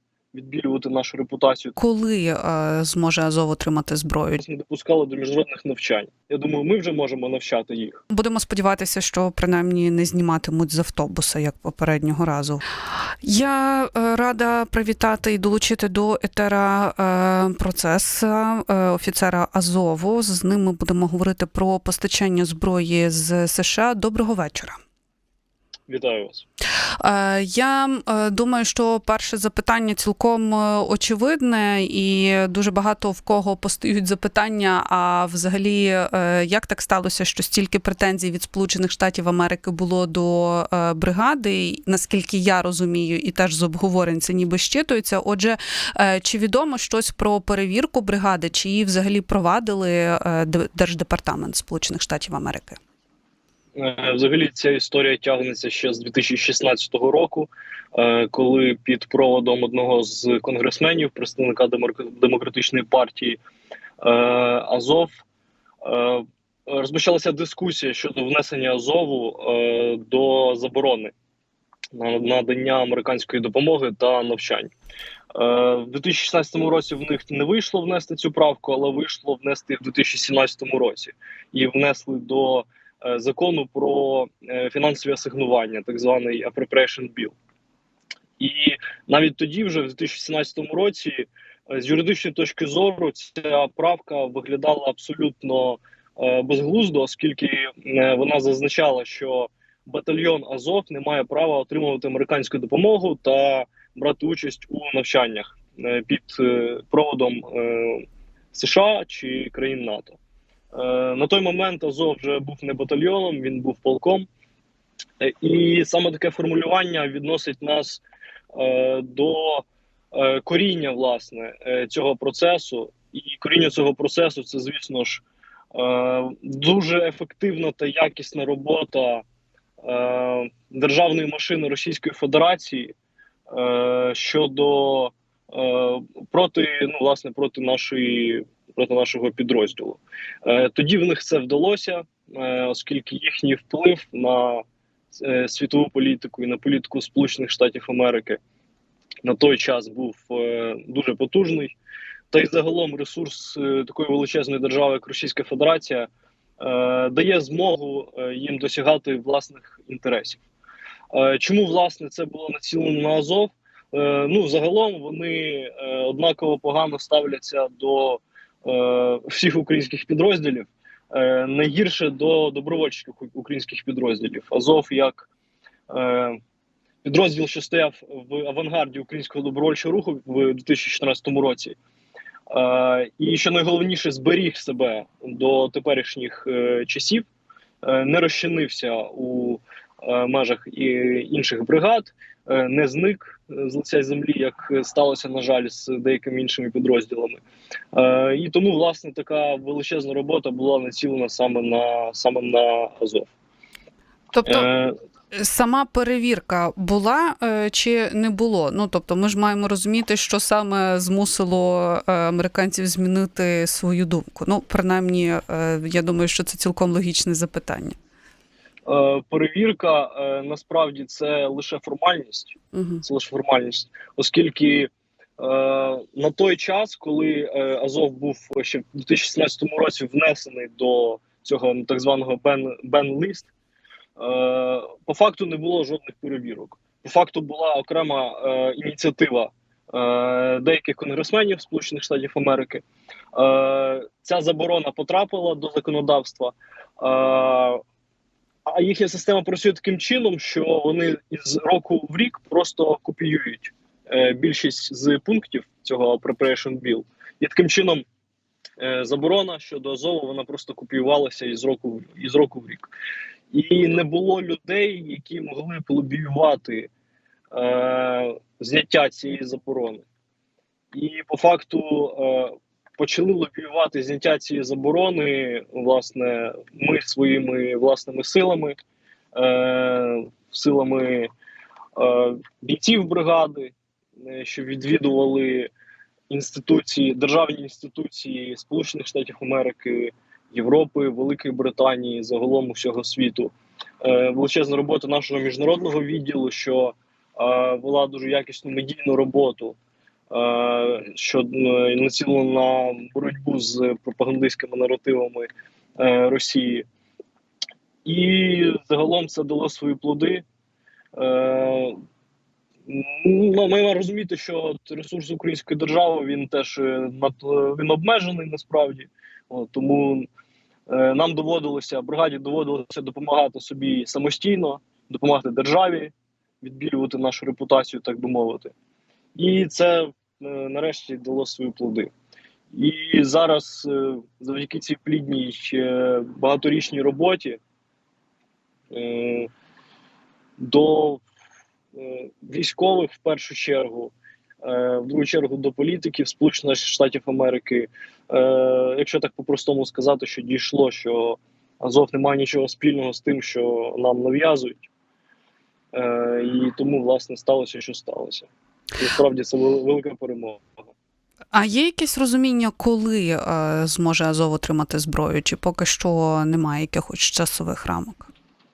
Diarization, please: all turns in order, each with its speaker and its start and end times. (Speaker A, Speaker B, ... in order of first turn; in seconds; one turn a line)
Speaker A: 0.3-1.8
Speaker B: 1.8-4.4
Speaker A: 4.4-8.0
Speaker B: 8.1-12.6
Speaker B: 13.2-24.8
Speaker A: 25.9-26.4
Speaker B: 27.0-52.8
Speaker A: 53.7-63.4
Speaker A: 64.0-65.2
Speaker A: 65.8-71.1
Speaker A: 71.9-74.7
Speaker A: 75.3-87.3
Speaker A: 88.4-110.2
Speaker A: 110.7-114.3
Speaker A: 115.2-118.0
Speaker A: 118.5-129.2
Speaker A: 129.8-132.9
Speaker A: 133.5-148.4
Speaker A: 149.2-151.7
Speaker A: 152.3-160.4
Speaker A: 161.1-175.3
Speaker A: 175.9-176.4
Speaker A: 177.0-181.8
Speaker A: 182.5-187.2
Speaker A: 187.8-197.4
Speaker A: 197.9-203.3
Speaker B: 204.3-204.7
Speaker A: 204.4-205.0
Speaker B: 205.3-218.0
Speaker A: 218.9-233.5
Speaker B: 222.7-223.0
Speaker A: 234.2-247.8
Speaker A: 248.7-258.0
Speaker A: 258.8-262.9
Speaker A: 263.5-266.9
Speaker A: 267.5-270.1
Speaker A: 270.9-278.8
Speaker A: 279.3-281.3
Speaker A: 281.9-285.7
Speaker A: 286.3-299.8
Speaker A: 300.3-306.9
Speaker A: 308.0-310.4
Speaker A: 311.1-312.0
Speaker A: 312.9-320.3
Speaker A: 320.9-328.7
Speaker A: 329.4-332.1
Speaker A: 332.7-337.6
Speaker A: 338.9-339.5
Speaker A: 340.6-341.2
Speaker A: 341.9-354.9
Speaker A: 355.9-360.7
Speaker B: 361.5-368.3